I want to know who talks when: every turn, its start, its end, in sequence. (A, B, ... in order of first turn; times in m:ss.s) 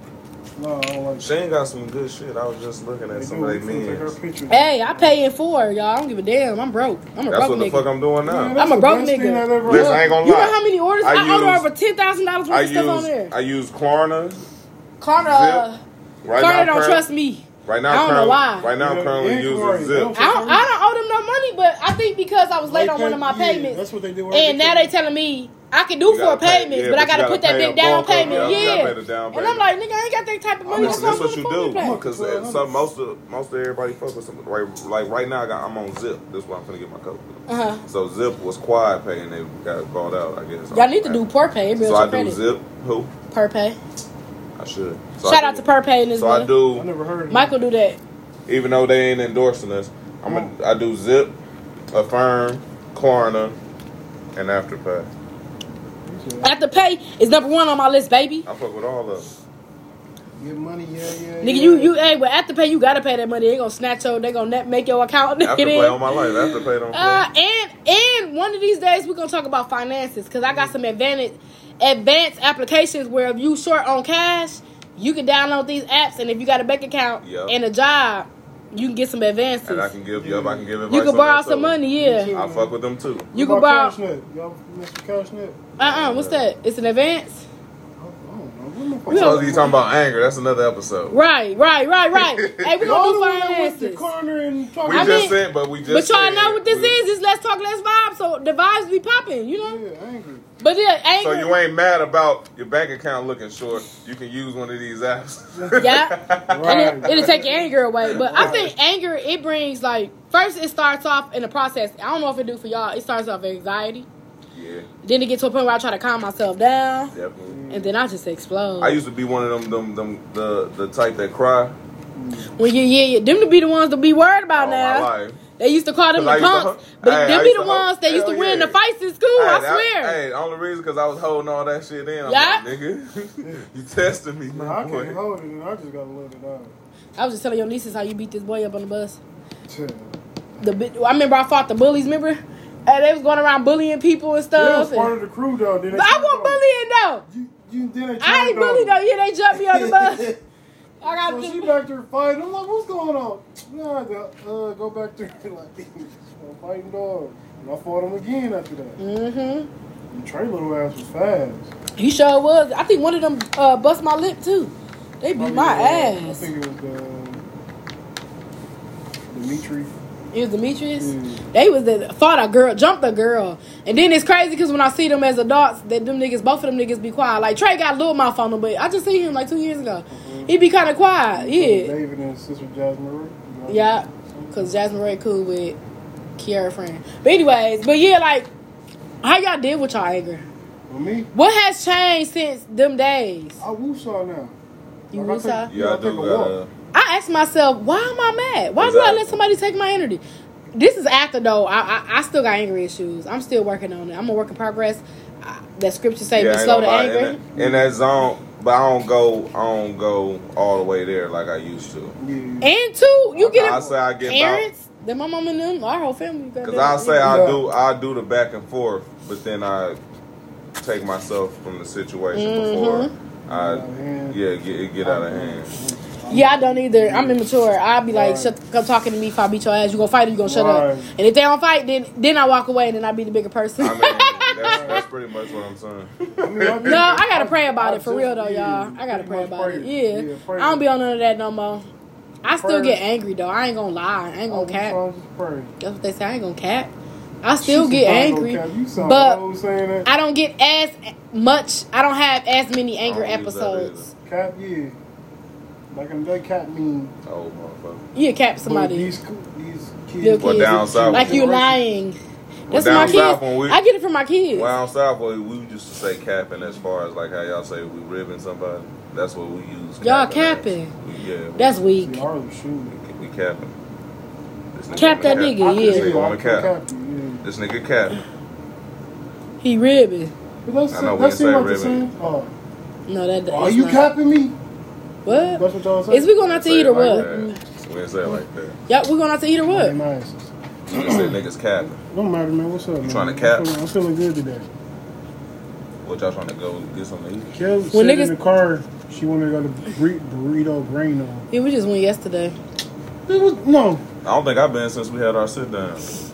0:00.6-0:01.3 A
0:01.2-0:04.2 B
0:03.1-0:05.2 A
0:04.5-0:07.8 C
0:07.3-0:08.6 B
0:08.2-0:10.2 A
0:08.6-0:13.3 C
0:09.6-0:11.7 B
0:12.5-0:14.4 B
0:15.0-0:15.8 C
0:15.2-0:15.6 B
0:16.2-0:17.0 B
0:16.4-0:18.7 C
0:17.6-0:20.2 B
0:18.8-0:20.7 A
0:20.2-0:32.0 C
0:22.7-0:24.9 A
0:26.1-0:29.6 B
0:28.2-0:28.8 A
0:30.6-0:32.9 A
0:30.8-0:41.2 B
0:37.5-0:37.8 C
0:40.7-0:42.4 C
0:41.8-0:43.1 B
0:43.3-0:43.8 C
0:44.6-0:46.9 B
0:45.2-0:46.5 C
0:46.7-0:47.5 A
0:47.3-0:48.0 C
0:48.5-0:51.4 B
0:50.3-0:50.5 A
0:51.9-0:53.6 B
0:54.3-0:55.1 B
0:56.0-0:56.5 A
0:56.4-0:58.4 C
0:58.4-0:59.3 B
1:00.4-1:01.9 A
1:01.4-1:19.9 C
1:05.4-1:07.2 B
1:10.5-1:10.7 A
1:17.2-1:17.5 B
1:19.6-1:21.8 B
1:20.1-1:20.7 A
1:20.9-1:22.3 C
1:22.0-1:22.7 A
1:22.3-1:23.3 B
1:23.3-1:23.9 C
1:23.3-1:25.6 A
1:25.8-1:26.5 B
1:25.8-1:27.4 C
1:28.0-1:29.8 A
1:29.1-1:29.4 C
1:29.1-1:31.2 B
1:31.1-1:34.0 C
1:32.1-1:32.9 B
1:32.8-1:35.3 A
1:34.8-1:37.0 B
1:34.9-1:39.8 C
1:39.6-1:40.4 A
1:40.6-1:41.5 C
1:41.2-1:47.4 B
1:45.5-1:45.8 A
1:45.8-1:54.1 C
1:46.5-1:48.7 A
1:48.0-1:48.7 B
1:54.5-1:54.9 B
1:55.0-1:57.1 C
1:57.1-1:57.6 B
1:57.5-1:57.9 A
1:57.7-1:59.0 C
1:58.8-2:01.8 B
2:02.2-2:02.5 A
2:02.6-2:10.2 C
2:04.6-2:05.4 B
2:06.1-2:08.8 B
2:09.4-2:15.2 B
2:12.2-2:12.6 C
2:14.5-2:16.7 A
2:17.2-2:19.2 C
2:19.7-2:20.2 A
2:20.6-2:25.1 C
2:24.5-2:26.6 A
2:25.9-2:27.2 C
2:27.3-2:29.0 A
2:28.2-2:30.3 C
2:29.5-2:30.4 A
2:31.0-2:31.7 C
2:31.0-2:39.0 A
2:39.0-2:39.7 C
2:40.1-2:41.7 A
2:42.0-2:46.5 C
2:45.3-2:47.4 A
2:49.3-2:49.9 A
2:50.3-3:01.9 C
2:51.0-2:51.4 A
3:00.1-3:00.5 A
3:01.3-3:04.8 A
3:03.7-3:05.8 C
3:06.4-3:08.5 C
3:09.2-3:10.4 C
3:10.9-3:11.3 A
3:11.3-3:13.6 C
3:13.6-3:14.6 A
3:15.1-3:15.7 C
3:15.1-3:16.5 A
3:15.7-3:16.7 B
3:16.9-3:20.2 C
3:18.8-3:19.4 B
3:20.7-3:27.4 C
3:26.3-3:32.2 B
3:27.5-3:27.9 A
3:32.2-3:32.7 A
3:32.6-3:37.3 C
3:33.3-3:34.0 A
3:33.5-3:34.6 B
3:36.6-3:40.0 B
3:37.2-3:37.6 A
3:40.8-3:45.8 B
3:42.3-3:43.1 C
3:43.5-3:44.4 A
3:45.0-3:47.4 A
3:46.3-3:55.0 C
3:48.1-3:48.5 A
3:50.4-3:51.1 A
3:53.8-3:57.0 B
3:54.6-3:55.0 A
3:56.4-4:00.8 A
3:56.8-4:01.9 C
4:02.4-4:05.0 C
4:02.4-4:03.0 A
4:04.5-4:05.7 A
4:05.8-4:06.9 C
4:07.4-4:09.4 C
4:07.6-4:10.1 A
4:10.0-4:14.0 C
4:13.0-4:14.1 B
4:14.2-4:15.0 A
4:15.9-4:17.1 A
4:17.2-4:18.0 B
4:18.1-4:19.1 C
4:18.6-4:21.8 A
4:20.2-4:22.2 C
4:20.4-4:21.5 B
4:22.7-4:23.8 B
4:22.7-4:24.7 C
4:22.7-4:23.3 A
4:24.5-4:31.7 B
4:30.0-4:30.9 C
4:31.6-4:32.2 C
4:32.0-4:32.9 A
4:32.9-4:33.8 B
4:34.7-4:36.7 B
4:34.9-4:36.1 C
4:35.2-4:37.4 A
4:37.4-4:38.2 B
4:39.6-4:40.3 C
4:40.6-4:42.6 A
4:40.9-4:42.1 B
4:43.1-4:44.0 C
4:43.5-4:44.6 A
4:45.2-4:47.4 C
4:45.2-4:47.5 A
4:46.4-4:48.8 B
4:48.9-4:49.9 C
4:49.7-4:51.4 A
4:50.9-4:52.0 B
4:52.0-4:54.6 A
4:53.0-4:53.7 B
4:56.0-4:57.5 B
4:57.5-5:01.5 A
4:57.9-4:58.3 C
5:01.5-5:02.6 C
5:03.3-5:04.0 A
5:04.2-5:06.2 B